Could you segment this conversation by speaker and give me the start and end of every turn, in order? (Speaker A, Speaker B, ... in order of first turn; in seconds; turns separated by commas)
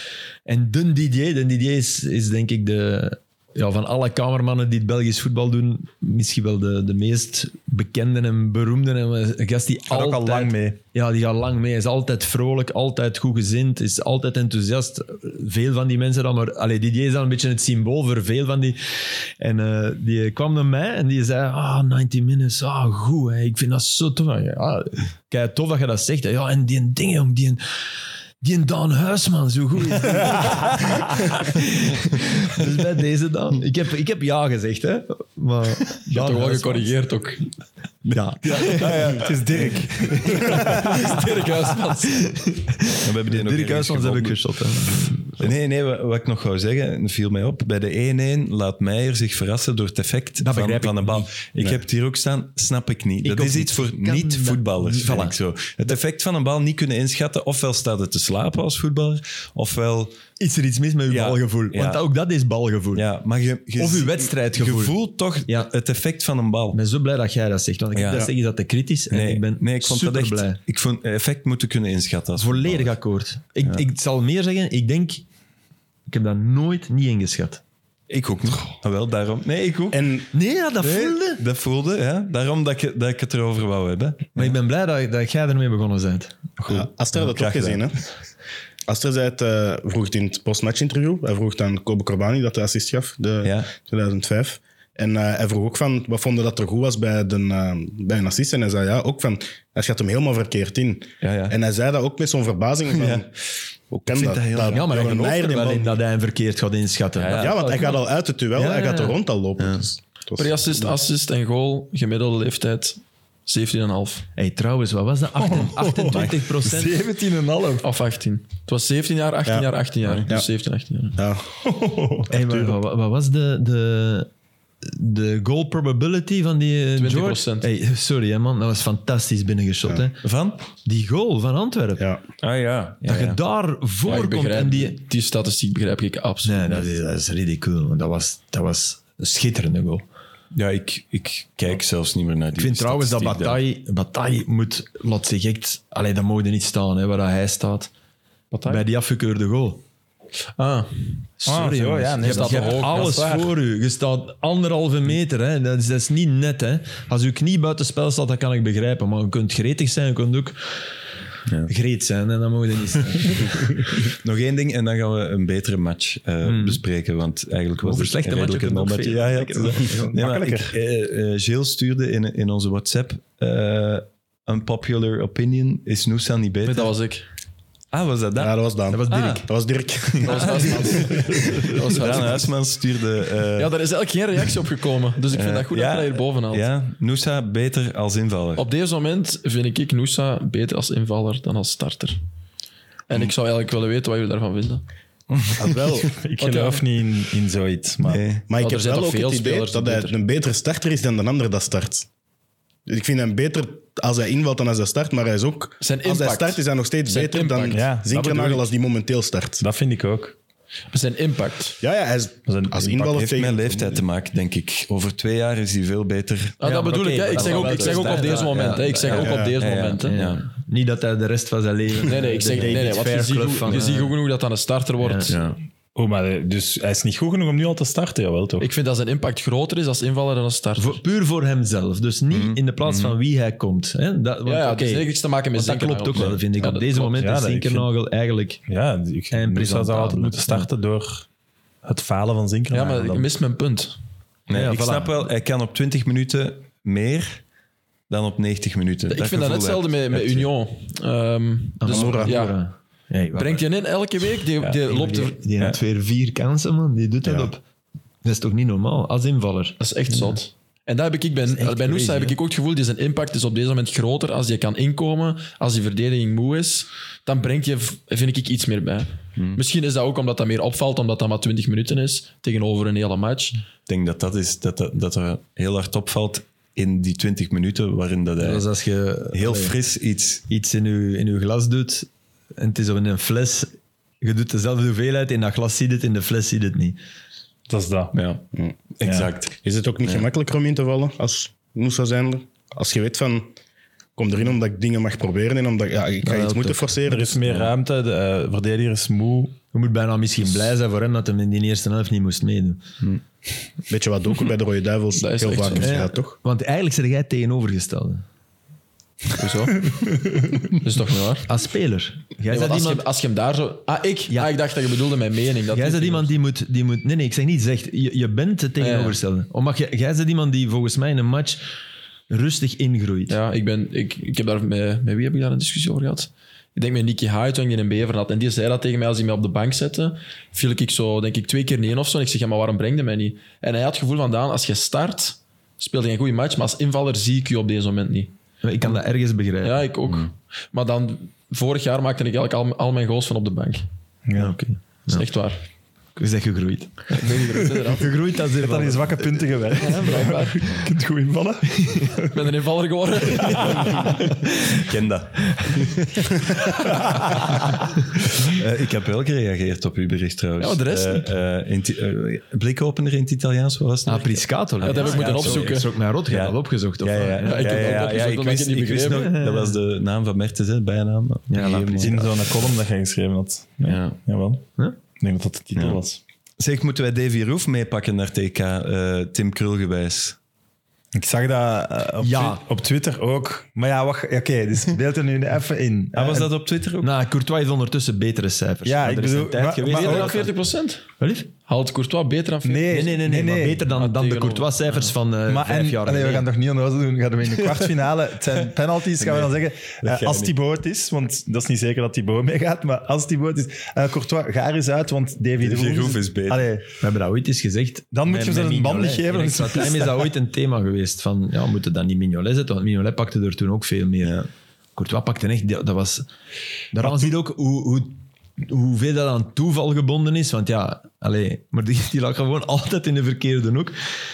Speaker A: 0.5-27.6, Speaker B: 9.9-10.8, Speaker A: 28.4-36.9, Speaker C: 36.1-37.5, Speaker A: 38.0-45.5, Speaker B: 38.7-40.9, Speaker D: 38.8-39.3, Speaker C: 40.3-42.3, Speaker D: 43.0-60.2, Speaker A: 50.4-51.3, Speaker A: 53.2-55.4, Speaker A: 60.4-63.0, Speaker D: 61.1-62.0, Speaker D: 62.9-66.8, Speaker A: 63.8-64.9, Speaker A: 66.7-70.6, Speaker D: 67.9-68.3, Speaker D: 69.1-72.9, Speaker A: 72.4-75.2, Speaker A: 76.1-77.6, Speaker D: 78.1-79.9, Speaker A: 79.6-81.4, Speaker E: 79.9-80.3, Speaker D: 80.8-84.5, Speaker A: 84.3-86.4, Speaker D: 86.6-87.9, Speaker E: 86.7-88.0, Speaker E: 88.9-103.3, Speaker D: 93.4-93.7, Speaker D: 101.2-101.6, Speaker D: 102.9-103.2, Speaker E: 103.9-106.0, Speaker D: 104.1-104.8, Speaker A: 104.5-107.6, Speaker D: 107.2-108.0, Speaker E: 107.3-110.9, Speaker A: 108.5-109.2, Speaker D: 109.6-109.8, Speaker C: 110.4-114.2, Speaker A: 114.3-117.0, Speaker B: 115.4-117.9, Speaker C: 117.8-121.2, Speaker E: 121.2-121.6, Speaker B: 121.6-122.7, Speaker A: 122.3-124.3, Speaker A: 124.8-130.2, Speaker C: 127.0-127.7, Speaker D: 130.2-130.6, Speaker A: 130.8-132.0, Speaker D: 132.4-133.4, Speaker A: 133.0-135.0, Speaker C: 134.1-136.9, Speaker A: 136.4-140.0, Speaker D: 140.5-143.6, Speaker A: 142.5-147.9, Speaker C: 148.5-148.8, Speaker A: 148.7-149.8, Speaker C: 150.6-151.3, Speaker A: 151.4-160.8, Speaker B: 151.4-153.5, Speaker C: 152.2-153.3, Speaker A: 161.7-163.8, Speaker D: 164.0-176.9, Speaker A: 166.4-166.8, Speaker A: 167.8-170.1, Speaker B: 170.0-170.7, Speaker C: 176.6-177.2, Speaker D: 177.9-178.6, Speaker E: 178.3-181.8, Speaker A: 178.9-179.5, Speaker D: 179.1-179.4, Speaker C: 180.2-182.5, Speaker A: 180.4-181.0, Speaker D: 181.2-183.7, Speaker C: 183.5-186.7, Speaker D: 185.3-188.6, Speaker C: 188.6-192.2, Speaker C: 193.1-194.8, Speaker D: 195.3-196.0, Speaker E: 195.5-196.2, Speaker B: 196.0-198.2, Speaker C: 196.4-196.8, Speaker D: 198.0-198.4, Speaker E: 198.5-202.1, Speaker C: 198.6-200.2, Speaker E: 202.9-209.6, Speaker C: 205.8-207.9, Speaker B: 207.7-208.7, Speaker B: 209.6-210.3, Speaker C: 210.9-211.8, Speaker E: 211.8-214.0, Speaker B: 212.5-213.2, Speaker D: 213.1-216.7, Speaker C: 216.6-220.2, Speaker A: 216.6-224.1, Speaker D: 217.3-218.3, Speaker D: 219.1-220.4, Speaker E: 219.2-219.5, Speaker C: 222.1-225.5, Speaker A: 225.0-225.3, Speaker D: 225.3-225.6, Speaker B: 225.9-228.7, Speaker C: 228.6-231.0, Speaker A: 230.8-238.6, Speaker D: 232.3-233.2, Speaker C: 234.4-237.2, Speaker B: 237.1-237.9, Speaker B: 238.7-241.3, Speaker A: 239.3-240.7, Speaker B: 241.8-243.3, Speaker C: 242.7-243.9, Speaker D: 244.5-247.4, Speaker A: 244.5-245.3, Speaker D: 248.1-250.5, Speaker C: 249.1-252.6, Speaker A: 251.8-253.6, Speaker E: 251.9-252.3, Speaker C: 253.3-255.4, Speaker A: 254.8-257.6, Speaker E: 257.2-257.5, Speaker A: 258.2-259.8, Speaker C: 259.8-273.6, Speaker A: 261.5-262.4, Speaker D: 269.4-269.6, Speaker D: 273.9-278.6, Speaker A: 278.4-279.8, Speaker D: 279.3-280.4, Speaker A: 280.5-287.0, Speaker B: 287.7-288.1, Speaker D: 288.1-288.4, Speaker D: 288.9-289.5, Speaker B: 289.0-289.3, Speaker E: 289.6-293.5, Speaker E: 294.1-297.5, Speaker A: 296.2-296.9, Speaker B: 297.1-299.6, Speaker A: 299.7-302.8, Speaker E: 303.9-306.4, Speaker C: 305.1-306.1, Speaker A: 305.7-308.2, Speaker C: 309.4-311.5, Speaker A: 311.4-313.1, Speaker C: 312.5-316.3, Speaker A: 315.7-321.6, Speaker C: 318.8-319.2, Speaker A: 322.3-323.4, Speaker C: 323.3-338.3, Speaker A: 338.6-339.8, Speaker C: 339.6-343.8, Speaker B: 344.3-344.6, Speaker A: 344.4-345.3, Speaker C: 345.1-345.6, Speaker A: 346.1-350.2, Speaker C: 347.1-348.2, Speaker B: 348.6-352.5, Speaker C: 349.8-350.8, Speaker C: 352.2-354.4, Speaker B: 353.4-354.1, Speaker D: 354.7-357.7, Speaker D: 358.4-372.3, Speaker C: 360.6-361.3, Speaker A: 364.1-368.1, Speaker C: 364.8-365.9, Speaker C: 367.4-369.4, Speaker A: 369.0-369.8, Speaker A: 371.5-372.3, Speaker B: 372.0-374.7, Speaker D: 373.8-374.2, Speaker B: 375.2-376.2, Speaker D: 375.7-376.0, Speaker D: 376.6-380.4, Speaker B: 381.1-386.5, Speaker A: 382.2-382.6, Speaker D: 386.1-387.1, Speaker A: 387.0-390.5, Speaker B: 388.8-390.5, Speaker C: 389.8-391.1, Speaker A: 391.2-391.5, Speaker C: 391.6-393.0, Speaker B: 392.6-393.9, Speaker A: 392.9-396.5, Speaker C: 393.9-395.1, Speaker B: 395.5-406.9, Speaker D: 399.2-400.5, Speaker D: 405.6-406.7, Speaker A: 407.0-414.4, Speaker B: 408.1-410.3, Speaker A: 414.9-416.3, Speaker A: 416.9-424.0